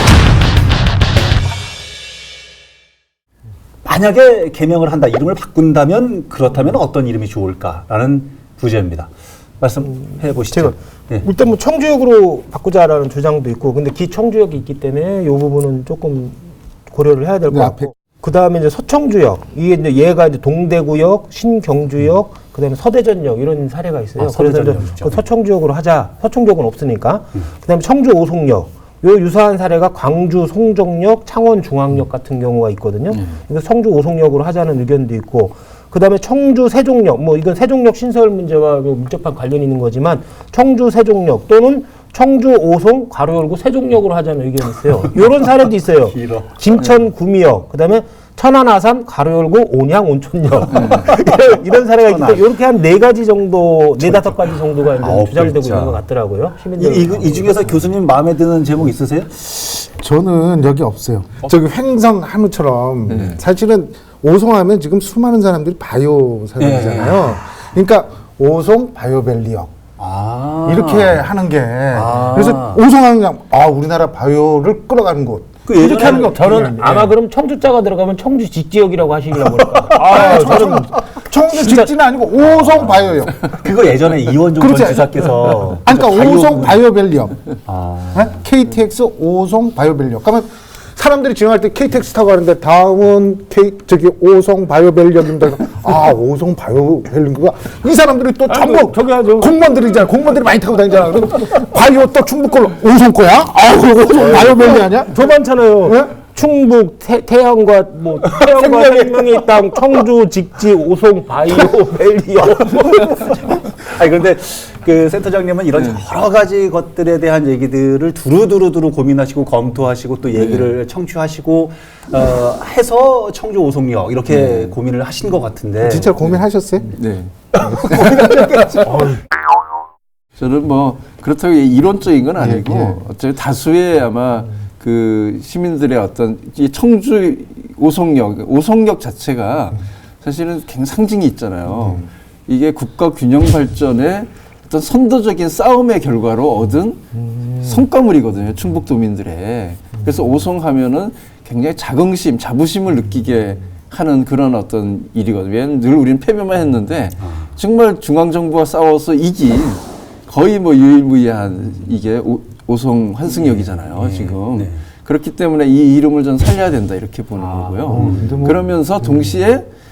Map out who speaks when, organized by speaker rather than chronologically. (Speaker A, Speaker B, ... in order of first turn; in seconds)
Speaker A: 3.8-11.2, 24.2-25.2, 46.1-46.5, 51.1-51.3, 52.0-52.4, 54.1-54.3, 54.9-56.0, 56.8-59.4, 66.6-67.4, 70.0-71.2, 71.9-72.8, 75.7-77.1, 79.7-80.7, 82.5-86.8, 87.7-88.3, 113.8-126.2, 127.6-129.1, 163.4-164.8, 167.4-168.5
Speaker B: 10.4-57.8, 75.8-81.0, 81.5-81.9, 98.5-99.5, 104.2-113.6, 128.9-129.2
Speaker C: 17.5-17.9, 59.5-69.7, 70.6-77.1, 79.9-83.4, 84.5-87.4, 88.1-105.3, 105.8-106.1, 108.4-109.6, 125.8-126.9, 132.4-133.0, 167.9-169.3
Speaker D: 50.7-51.1, 63.1-63.4, 115.7-116.0, 120.3-120.7, 124.3-124.8, 126.9-128.8, 130.4-169.7